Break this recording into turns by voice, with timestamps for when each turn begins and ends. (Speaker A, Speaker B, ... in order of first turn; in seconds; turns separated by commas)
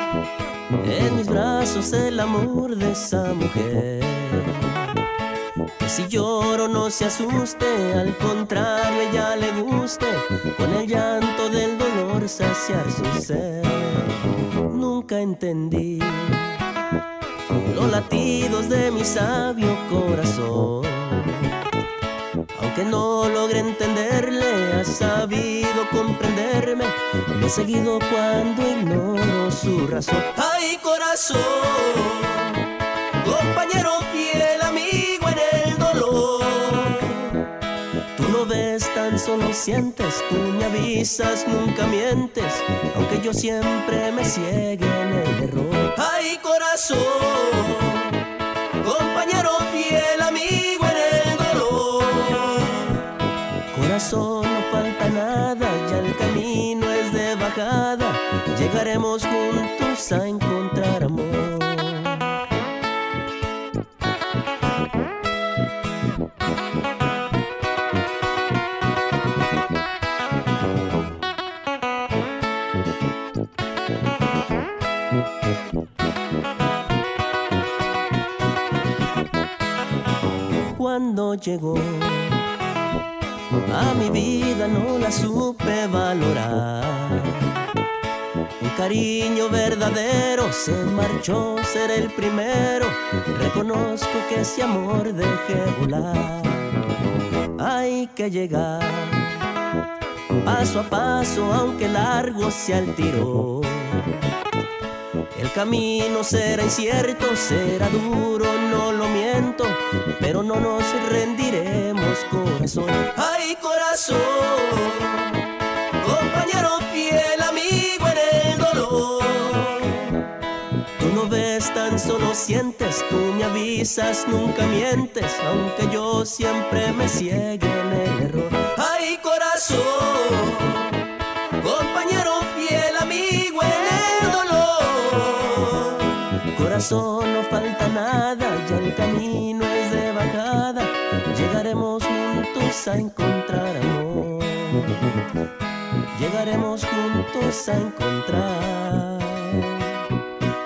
Speaker A: 0.7-5.0, Speaker A: 5.8-16.6, Speaker A: 17.5-21.6, Speaker A: 22.5-37.5, Speaker A: 38.1-53.1, Speaker A: 53.7-62.4, Speaker A: 80.6-82.5, Speaker A: 83.5-87.7, Speaker A: 88.6-96.9, Speaker A: 97.5-99.4, Speaker A: 100.4-104.1, Speaker A: 105.3-120.2, Speaker A: 121.0-145.1, Speaker A: 146.1-150.1